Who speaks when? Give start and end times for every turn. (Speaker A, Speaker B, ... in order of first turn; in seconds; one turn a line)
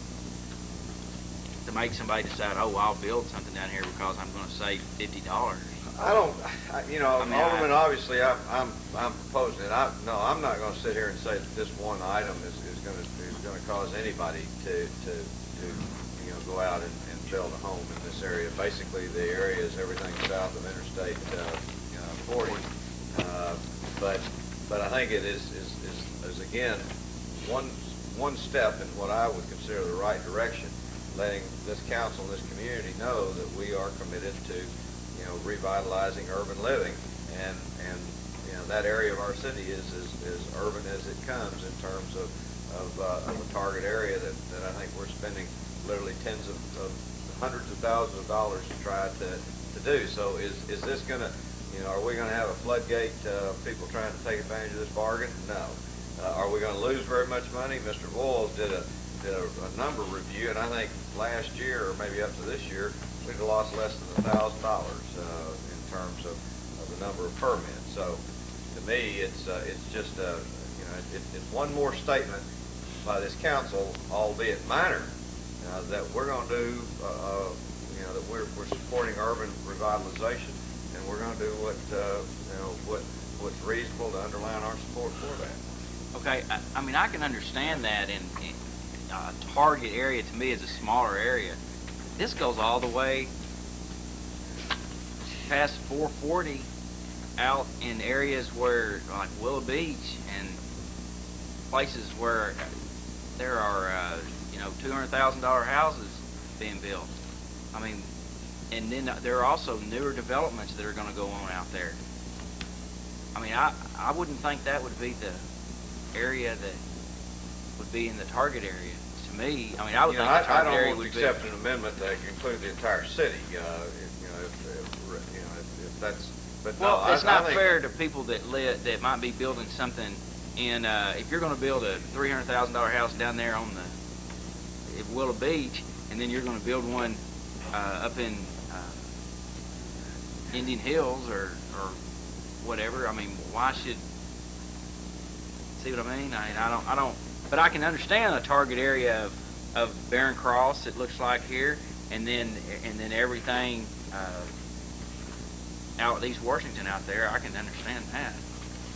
Speaker A: 1.6-5.7
Speaker B: 6.0-26.9
Speaker A: 7.2-7.8
Speaker B: 27.4-68.2
Speaker B: 68.7-72.4
Speaker B: 73.0-75.1
Speaker B: 75.6-85.6
Speaker A: 86.1-88.5
Speaker A: 89.1-91.6
Speaker A: 92.2-93.3
Speaker A: 95.5-96.7
Speaker A: 97.4-100.6
Speaker A: 101.7-102.6
Speaker A: 103.4-107.1
Speaker A: 107.7-108.1
Speaker A: 108.7-112.0
Speaker A: 113.3-115.4
Speaker A: 116.1-116.8
Speaker A: 117.8-121.4
Speaker B: 120.0-127.8
Speaker A: 126.8-133.9
Speaker A: 134.9-137.2
Speaker A: 137.7-138.9
Speaker A: 140.5-142.0
Speaker A: 142.6-144.0
Speaker A: 145.8-154.5
Speaker A: 156.0-158.4